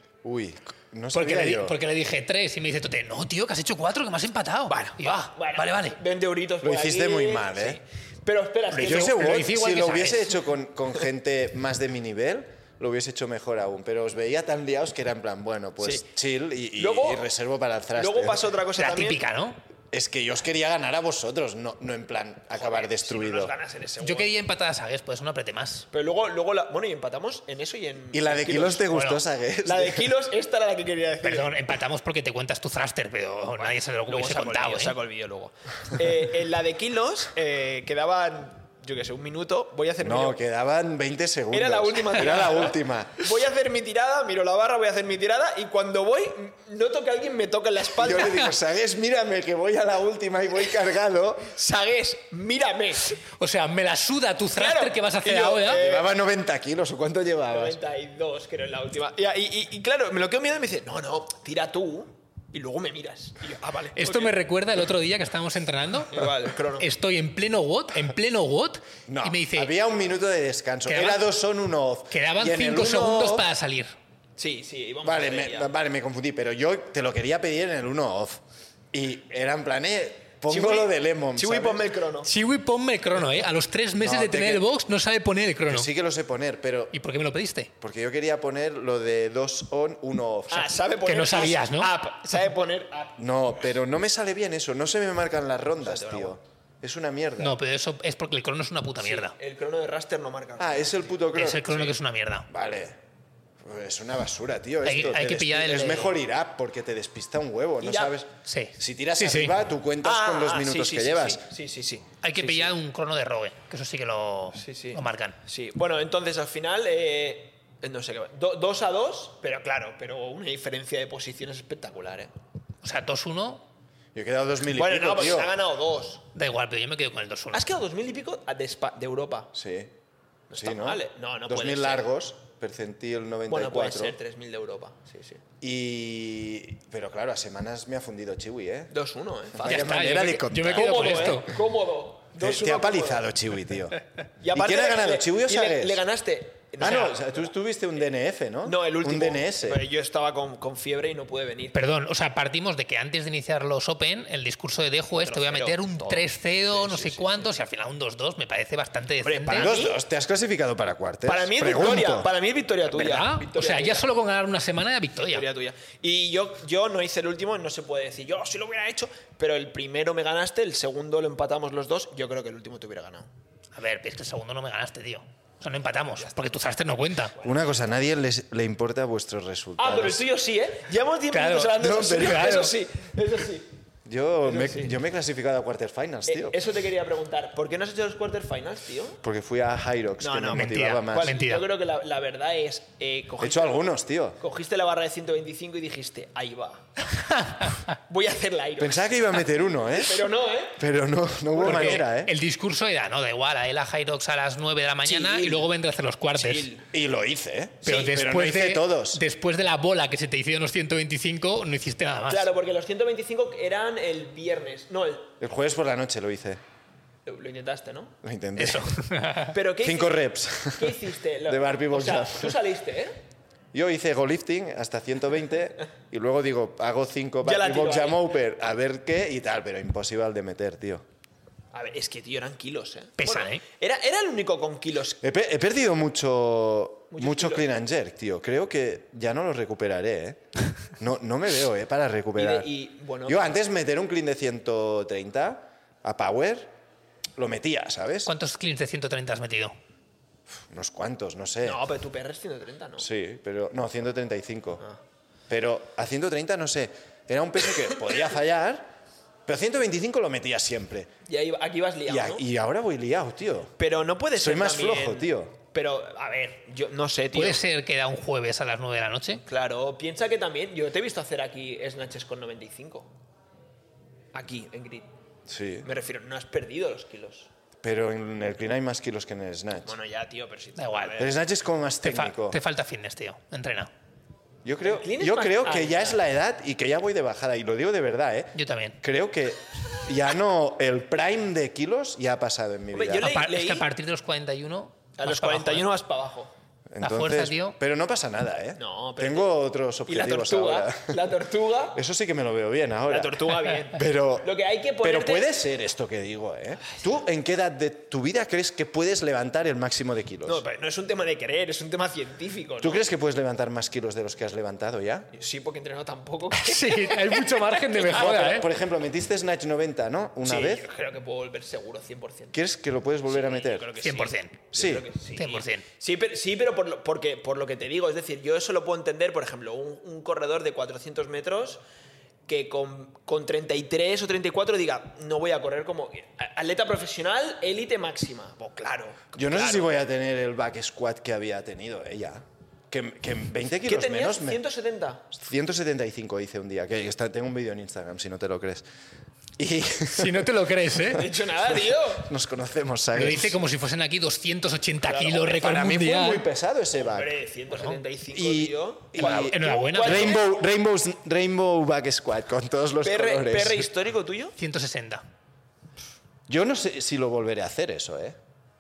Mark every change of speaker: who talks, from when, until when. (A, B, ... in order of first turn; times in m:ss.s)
0:00.2-0:01.8 A
0:01.1-0:06.0 B
0:04.7-0:09.3 C
0:06.6-0:07.8 A
0:08.7-0:10.4 B
0:08.8-0:18.4 A
0:15.8-0:16.1 C
0:16.8-0:17.3 C
0:18.0-0:19.2 C
0:18.8-0:19.6 B
0:19.9-0:23.5 A
0:22.5-0:24.3 C
0:24.0-0:25.9 B
0:25.9-0:28.9 C
0:28.1-0:30.1 A
0:28.9-0:29.2 B
0:29.6-0:31.6 C
0:31.2-0:35.0 B
0:33.6-0:40.4 C
0:40.0-0:43.3 A
0:41.5-0:48.6 C
0:47.9-0:51.5 A
0:51.5-0:53.2 C
0:53.2-0:55.8 B
0:54.5-0:56.1 C
0:55.7-0:57.8 A
0:57.5-1:04.3 C
1:04.0-1:09.7 B
1:06.1-1:06.9 C
1:09.1-1:13.5 A
1:10.9-1:11.2 B
1:12.1-1:13.9 B
1:14.4-1:15.7 C
1:15.0-1:21.9 A
1:20.5-1:22.3 C
1:22.2-1:25.9 B
1:24.0-1:24.6 A
1:25.7-1:26.9 A
1:26.9-1:27.7 B
1:27.8-1:30.8 A
1:30.5-1:33.2 C
1:31.0-1:31.9 B
1:33.2-1:37.6 A
1:35.8-1:36.4 C
1:37.4-1:39.4 B
1:39.0-1:41.9 C
1:40.6-1:41.7 A
1:41.3-1:42.5 B
1:42.5-1:43.0 A
1:43.6-1:51.5 A
1:44.8-1:46.1 B
1:47.8-1:48.2 C
1:48.4-1:49.6 B
1:50.0-1:52.7 C
1:52.2-1:55.4 B
1:54.5-2:02.3 C
2:02.8-2:03.6 B
2:04.2-2:05.5 A
2:04.8-2:06.2 C
2:06.3-2:07.7 B
2:07.5-2:09.5 C
2:09.5-2:09.9 A
2:10.5-2:12.1 C
2:10.6-2:14.2 A
2:13.5-2:15.4 C
2:15.6-2:18.9 A
2:18.9-2:23.3 C
2:19.5-2:21.5 A
2:19.6-2:21.6 B
2:22.4-2:24.0 A
2:24.4-2:27.5 C
2:24.5-2:26.0 A
2:26.8-2:29.8 A
2:28.6-2:31.8 C
2:31.7-2:39.8 B
2:35.2-2:37.5 C
2:39.2-2:40.0 C
2:39.5-2:42.3 A
2:41.3-2:44.1 C
2:42.9-2:45.5 B
2:45.3-2:53.3 C
2:53.7-2:57.4 B
2:57.4-3:00.2 A
2:59.8-3:03.7 C
3:01.3-3:02.8 B
3:01.8-3:02.7 A
3:04.0-3:06.6 A
3:04.4-3:05.0 C
3:06.3-3:09.2 C
3:09.2-3:11.4 A
3:10.2-3:13.8 C
3:10.5-3:11.7 B
3:13.4-3:14.4 A
3:14.4-3:16.9 C
3:17.4-3:17.8 B
3:18.1-3:20.8 C
3:18.8-3:22.3 A
3:21.5-3:22.1 C
3:21.6-3:26.7 B
3:25.0-3:25.7 C
3:26.4-3:26.9 C
3:26.9-3:29.2 A
3:27.8-3:32.5 B
3:32.3-3:35.4 C
3:35.4-3:36.6 A
3:37.3-3:38.2 C
3:38.2-3:39.0 A
3:38.6-3:39.6 B
3:39.4-3:43.2 C
3:39.8-3:42.6 A
3:43.7-3:51.0 A
3:47.4-3:48.3 C
3:51.7-3:55.2 C
3:53.2-3:53.6 B
3:55.2-4:02.7 A
3:57.1-3:57.7 C
4:02.4-4:03.6 C
4:03.3-4:06.7 A
4:07.4-4:08.3 A
4:08.3-4:09.8 B
4:10.7-4:11.8 A
4:11.6-4:13.1 C
4:13.0-4:14.8 A
4:15.5-4:18.9 A
4:19.5-4:21.1 A
4:21.3-4:22.5 C
4:22.1-4:23.8 A
4:23.8-4:27.6 C
4:24.4-4:25.5 A
4:27.3-4:29.4 B
4:29.4-4:33.1 C
4:34.3-4:35.1 C
4:35.5-4:35.9 A
4:35.8-4:37.5 C
4:37.8-4:39.9 A
4:39.8-4:41.4 C
4:40.8-4:41.2 B
4:41.2-4:42.6 A
4:42.0-4:43.9 B
4:44.6-4:53.3 A
4:44.8-4:46.2 C
4:48.6-4:49.0 B
4:52.9-4:53.9 C
4:53.2-4:55.9 B
4:55.2-4:56.5 C
4:56.9-5:01.2 A
4:57.0-4:57.8 B
4:58.8-5:02.0 C
5:01.9-5:10.6 A
5:03.1-5:05.5 C
5:10.4-5:13.0 C
5:12.8-5:15.3 A
5:15.3-5:18.6 C
5:16.5-5:18.7 B
5:18.0-5:20.8 A
5:20.4-5:22.6 C
5:22.5-5:23.9 A
5:23.3-5:31.8 C
5:24.0-5:24.6 B
5:24.7-5:25.0 A
5:25.4-5:25.8 B
5:32.5-5:40.0 C
5:39.4-5:44.6 A
5:43.8-5:45.3 C
5:45.3-5:48.8 A
5:49.6-5:50.5 A
5:50.1-5:51.3 B
5:51.1-5:52.3 C
5:52.1-5:53.6 A
5:53.1-5:56.4 B
5:55.0-5:55.6 C
5:55.5-5:57.3 A
5:57.0-6:00.4 C
5:57.7-5:58.0 B
5:58.3-6:03.9 A
5:59.2-6:00.4 B
6:03.0-6:04.6 C
6:04.6-6:05.2 B
6:06.5-6:08.4 A